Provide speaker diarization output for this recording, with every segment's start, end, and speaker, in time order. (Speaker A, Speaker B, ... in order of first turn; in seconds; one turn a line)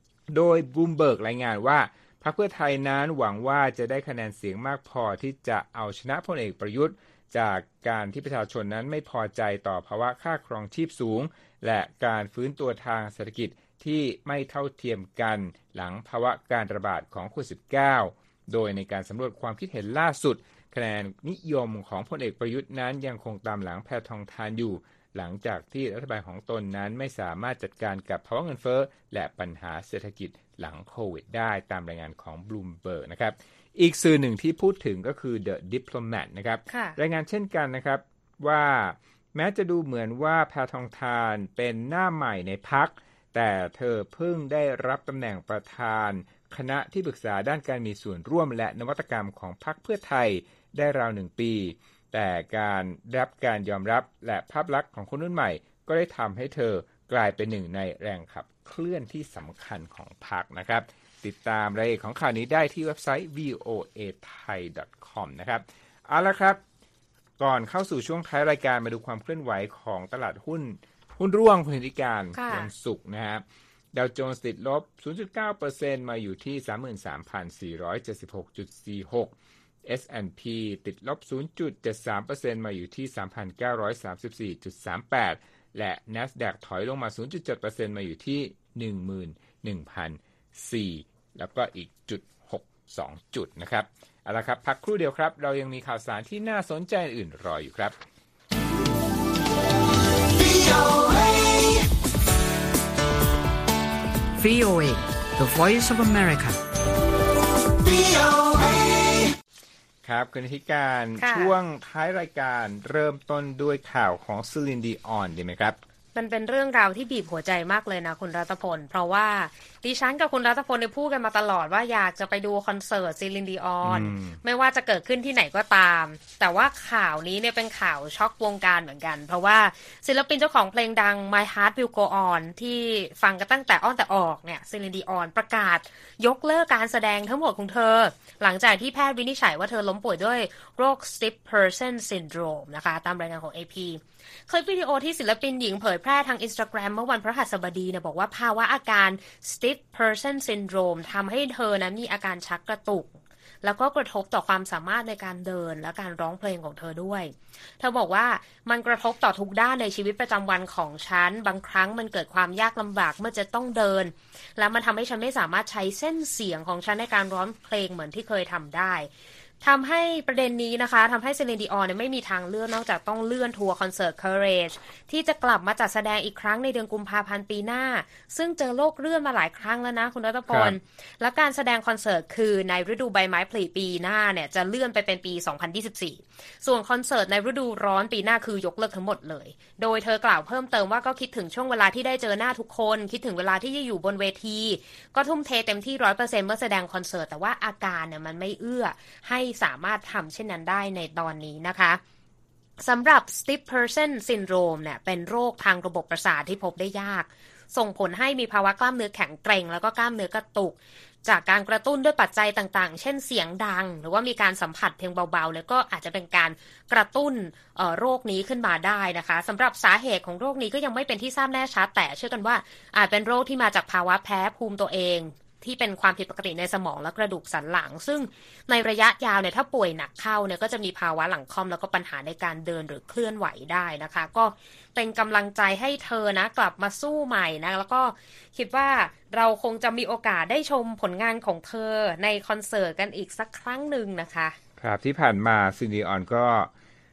Speaker A: 0.3-66.6
Speaker B: 36.7-37.0
Speaker A: 67.4-79.3
Speaker B: 72.3-72.7
Speaker A: 79.8-98.0
Speaker C: 100.7-101.2
Speaker C: 104.4-106.6
Speaker C: 108.0-108.6
Speaker A: 110.0-115.8
Speaker B: 111.2-111.5
Speaker B: 116.2-169.1
Speaker A: 123.8-124.4
Speaker B: 169.6-202.0
Speaker A: 180.5-180.8
Speaker B: 202.8-244.6
Speaker A: 244.8-246.7